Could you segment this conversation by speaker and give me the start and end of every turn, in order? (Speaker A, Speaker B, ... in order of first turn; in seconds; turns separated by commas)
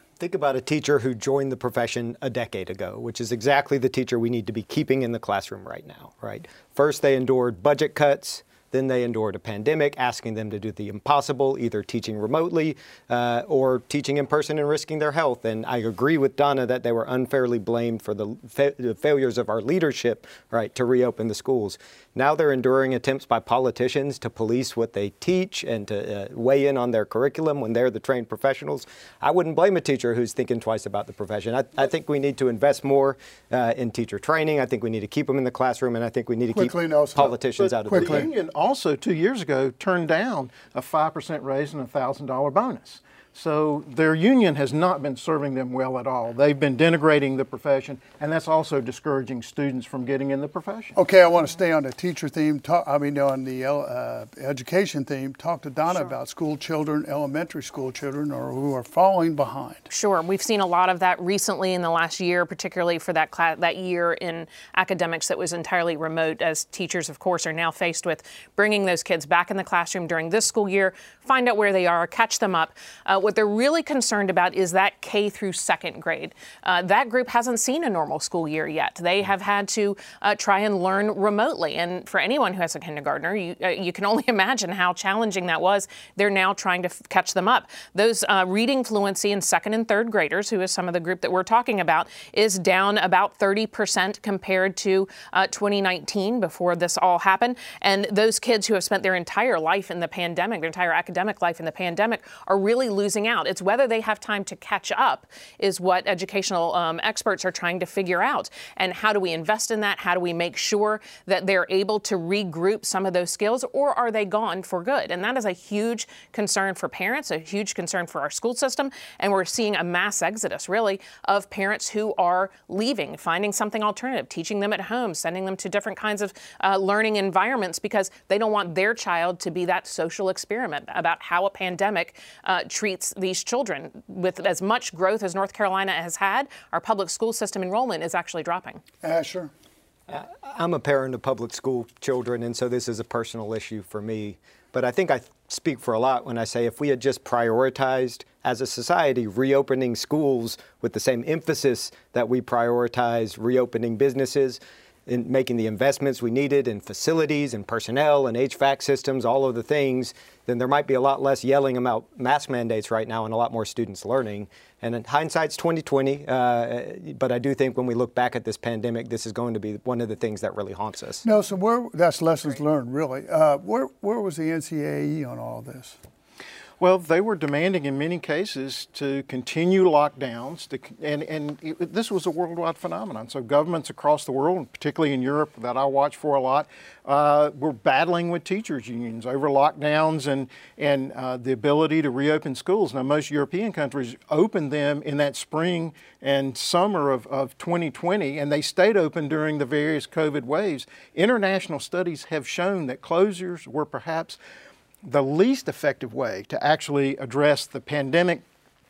Speaker A: 0.2-38.3, Speaker B: 36.5-38.3, Speaker C: 37.6-51.0, Speaker B: 51.0-59.8, Speaker D: 59.9-138.8, Speaker B: 139.0-139.5, Speaker A: 140.1-171.2, Speaker B: 171.2-176.0, Speaker C: 176.8-204.4, Speaker C: 205.0-208.4